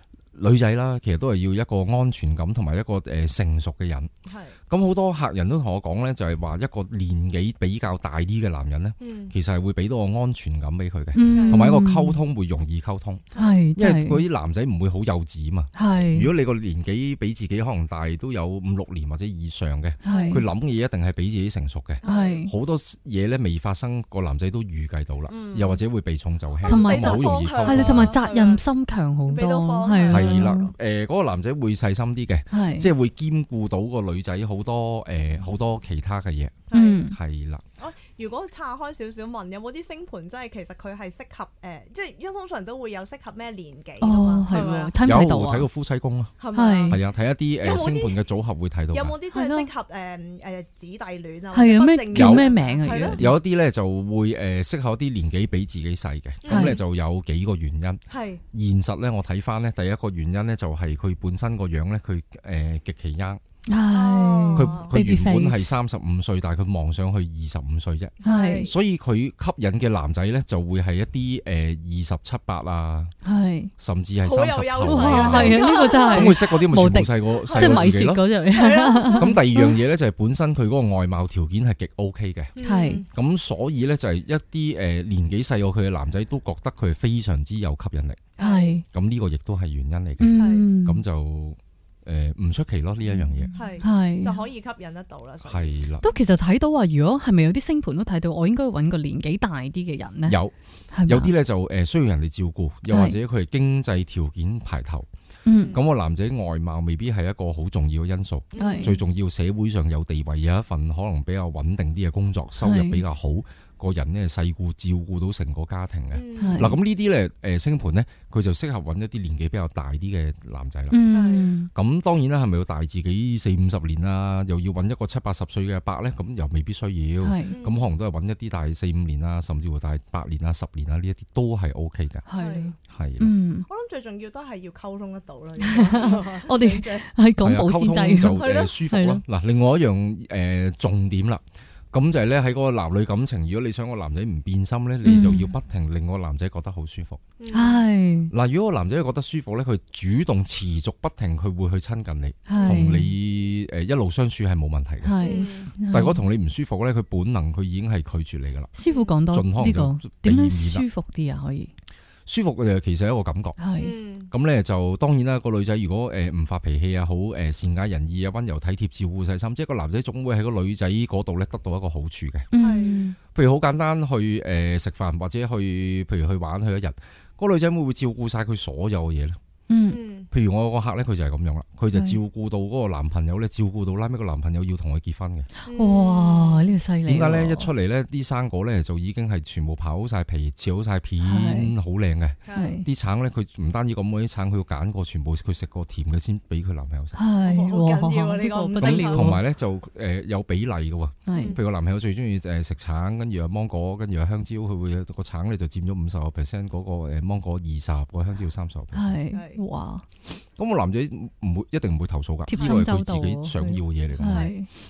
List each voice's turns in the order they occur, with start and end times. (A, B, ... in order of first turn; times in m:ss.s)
0:00.3-0:04.1 A
0:04.2-0:04.6 B
0:04.7-0:28.2 A
0:09.0-0:09.3 B
0:11.1-0:12.2 C
0:11.3-0:11.7 B
0:13.4-0:14.2 C
0:15.8-0:16.3 C
0:20.0-0:20.4 C
0:20.0-0:20.4 B
0:22.0-0:22.4 B
0:22.0-0:22.5 C
0:25.3-0:25.8 B
0:26.6-0:28.6 B
0:26.6-0:30.7 C
0:29.3-0:30.6 B
0:30.1-0:37.6 A
0:32.5-0:32.9 C
0:36.7-0:37.0 B
0:36.7-0:37.2 C
0:37.8-0:44.9 B
0:44.0-0:45.7 C
0:45.0-0:46.3 A
0:46.4-0:47.0 B
0:46.5-0:47.0 C
0:46.9-0:49.2 A
0:47.6-0:48.2 B
0:48.9-0:53.2 B
0:49.3-0:49.7 C
0:51.5-0:53.4 C
0:52.1-0:52.5 A
0:53.0-0:58.0 A
0:56.4-0:56.8 B
0:56.5-0:56.8 C
0:58.1-0:58.4 B
0:58.5-1:03.4 A
1:03.6-1:05.8 C
1:03.9-1:04.9 B
1:04.6-1:13.1 A
1:08.2-1:08.7 B
1:08.2-1:08.7 C
1:13.2-1:13.7 C
1:13.8-1:18.3 A
1:14.2-1:16.6 B
1:14.8-1:19.8 C
1:17.4-1:19.4 B
1:19.2-1:22.6 A
1:22.6-1:23.1 B
1:22.6-1:23.0 C
1:23.1-1:28.3 A
1:28.4-1:28.8 B
1:28.4-1:28.8 C
1:28.9-1:33.6 A
1:30.2-1:31.0 C
1:30.4-1:30.7 B
1:33.1-1:34.4 C
1:33.6-1:35.9 B
1:35.4-1:36.1 A
1:36.0-1:40.4 C
1:40.3-1:40.5 A
1:40.9-1:41.3 C
1:41.0-1:45.1 A
1:42.9-1:43.2 C
1:45.4-1:45.8 C
1:45.5-1:45.8 B
1:45.7-2:01.0 A
1:48.5-1:49.0 B
1:48.6-1:49.0 C
1:52.6-1:53.0 C
1:56.1-1:56.7 B
1:56.4-1:56.8 C
2:00.9-2:01.7 C
2:01.1-2:01.5 B
2:01.7-2:12.2 A
2:07.2-2:07.6 C
2:07.5-2:07.8 B
2:12.3-2:13.7 C
2:12.4-2:12.8 B
2:12.9-2:13.3 A
2:13.7-2:17.1 B
2:15.6-2:19.2 C
2:17.4-2:27.2 A
2:18.4-2:18.8 B
2:25.0-2:25.5 C
2:27.4-2:27.8 B
2:27.5-2:28.3 C
2:28.3-2:38.7 A
2:32.5-2:33.1 C
2:32.5-2:32.8 B
2:35.0-2:36.2 C
2:35.2-2:35.7 B
2:38.7-2:41.7 C
2:38.8-2:39.1 B
2:39.3-2:40.9 A
2:42.3-2:43.6 A
2:43.6-2:43.9 C
2:43.8-2:44.3 B
2:44.3-2:52.5 A
2:52.5-2:53.2 C
2:52.6-2:53.0 B
2:53.3-2:59.4 A
2:59.7-3:00.0 C
2:59.9-3:00.3 B
3:00.3-3:05.5 A
3:01.9-3:02.2 C
3:05.6-3:07.7 C
3:05.7-3:06.8 B
3:07.1-3:17.2 A
3:11.2-3:11.7 C
3:12.4-3:12.8 B
3:12.5-3:12.9 C
3:17.1-3:19.4 C
3:17.4-3:19.4 B
3:18.8-3:29.2 A
3:21.3-3:21.6 C
3:21.3-3:21.6 B
3:28.9-3:30.0 C
3:29.3-3:29.6 B
3:30.6-3:34.5 A
3:32.4-3:34.7 C
3:32.6-3:32.8 B
3:34.2-3:34.5 B